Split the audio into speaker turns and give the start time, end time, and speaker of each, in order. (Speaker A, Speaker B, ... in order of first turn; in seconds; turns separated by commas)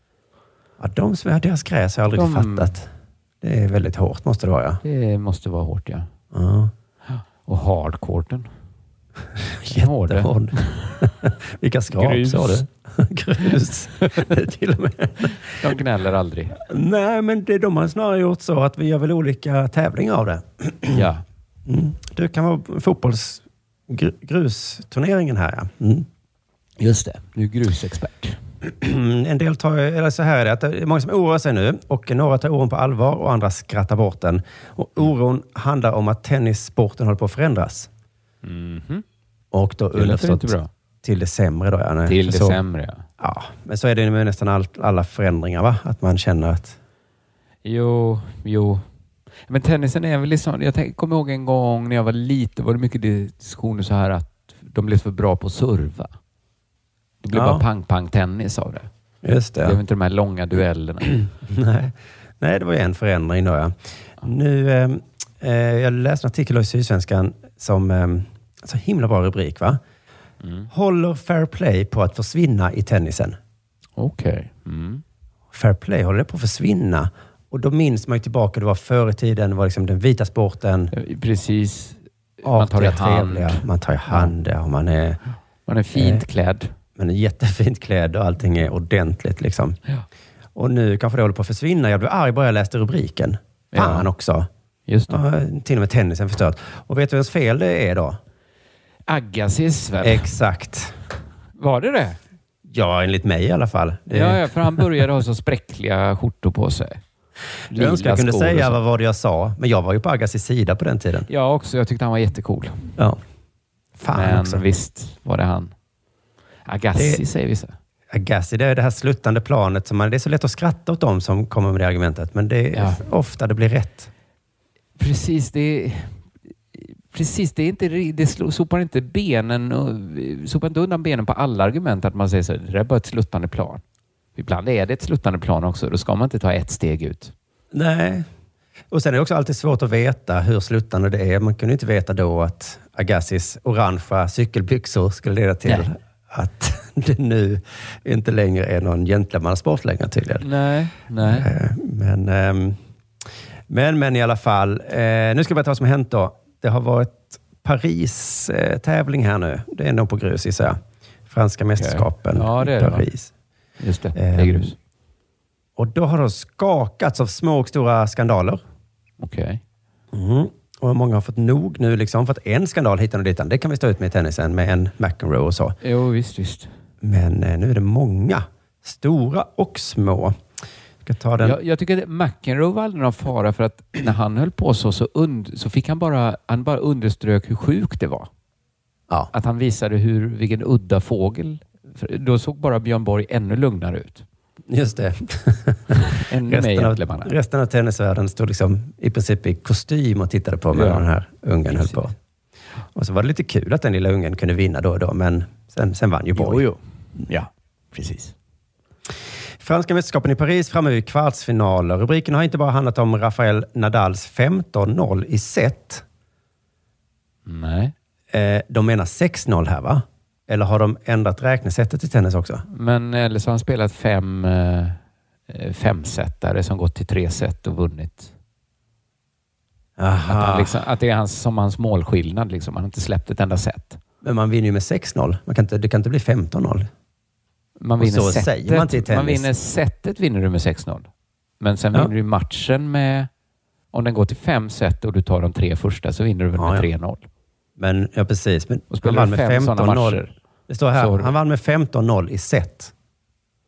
Speaker A: 0.8-2.9, Speaker B: 2.1-2.8, Speaker A: 3.4-4.8, Speaker B: 4.8-6.1, Speaker A: 6.3-6.7, Speaker B: 7.1-8.5, Speaker A: 9.4-15.8, Speaker B: 9.7-11.0, Speaker B: 12.0-12.6, Speaker B: 15.2-16.6, Speaker A: 16.6-21.1, Speaker B: 20.9-21.2, Speaker A: 21.7-26.1, Speaker B: 26.8-28.4, Speaker A: 28.6-37.9, Speaker B: 38.4-39.0, Speaker A: 39.5-42.6, Speaker B: 39.9-40.7, Speaker B: 42.1-43.0, Speaker A: 43.2-46.8, Speaker B: 47.6-48.9, Speaker B: 49.5-56.1, Speaker B: 57.2-58.9, Speaker A: 57.3-57.6, Speaker A: 59.2-59.8, Speaker B: 59.6-61.2, Speaker A: 61.1-69.8, Speaker B: 70.4-70.7, Speaker A: 70.7-73.4, Speaker B: 74.0-75.0, Speaker A: 75.5-80.9, Speaker B: 80.9-84.3, Speaker A: 82.4-85.2, Speaker B: 85.7-86.7, Speaker A: 85.9-86.2, Speaker A: 87.0-89.8, Speaker A: 90.5-94.5, Speaker B: 93.7-94.1, Speaker B: 94.9-95.2, Speaker A: 95.1-98.2, Speaker B: 99.1-100.3, Speaker A: 100.0-101.0, Speaker B: 101.6-102.2, Speaker A: 102.7-105.1, Speaker B: 104.1-107.0, Speaker B: 107.7-108.8, Speaker A: 107.7-111.3, Speaker B: 111.3-112.9, Speaker A: 114.0-114.7, Speaker B: 114.1-115.7, Speaker B: 116.7-117.8, Speaker A: 117.0-117.2, Speaker A: 118.1-124.1, Speaker B: 122.7-123.0, Speaker B: 125.0-133.8, Speaker B: 134.4-137.3, Speaker A: 137.7-138.3, Speaker A: 138.9-150.5, Speaker B: 150.4-151.5, Speaker A: 151.2-152.8, Speaker A: 153.7-163.3, Speaker B: 161.8-163.1, Speaker B: 163.8-164.8, Speaker A: 164.2-164.7, Speaker A: 165.8-168.6, Speaker B: 169.2-169.6, Speaker A: 170.1-175.8, Speaker B: 175.8-176.8, Speaker A: 177.0-180.4, Speaker A: 181.1-181.6, Speaker B: 181.4-188.3, Speaker B: 189.3-194.2, Speaker A: 194.7-202.1, Speaker B: 196.1-197.3, Speaker B: 200.7-201.1, Speaker B: 201.7-202.0, Speaker A: 202.9-206.6, Speaker B: 206.4-208.3, Speaker A: 209.6-216.0, Speaker B: 217.5-217.9, Speaker A: 218.3-222.6, Speaker B: 222.7-225.0, Speaker B: 225.5-228.3, Speaker A: 230.0-230.8, Speaker B: 230.3-234.0, Speaker A: 234.2-236.9, Speaker B: 237.8-241.1, Speaker A: 238.0-239.5, Speaker B: 241.6-243.3, Speaker B: 243.9-247.2, Speaker A: 246.6-246.9, Speaker A: 247.8-252.9, Speaker B: 248.9-250.3, Speaker B: 250.9-251.3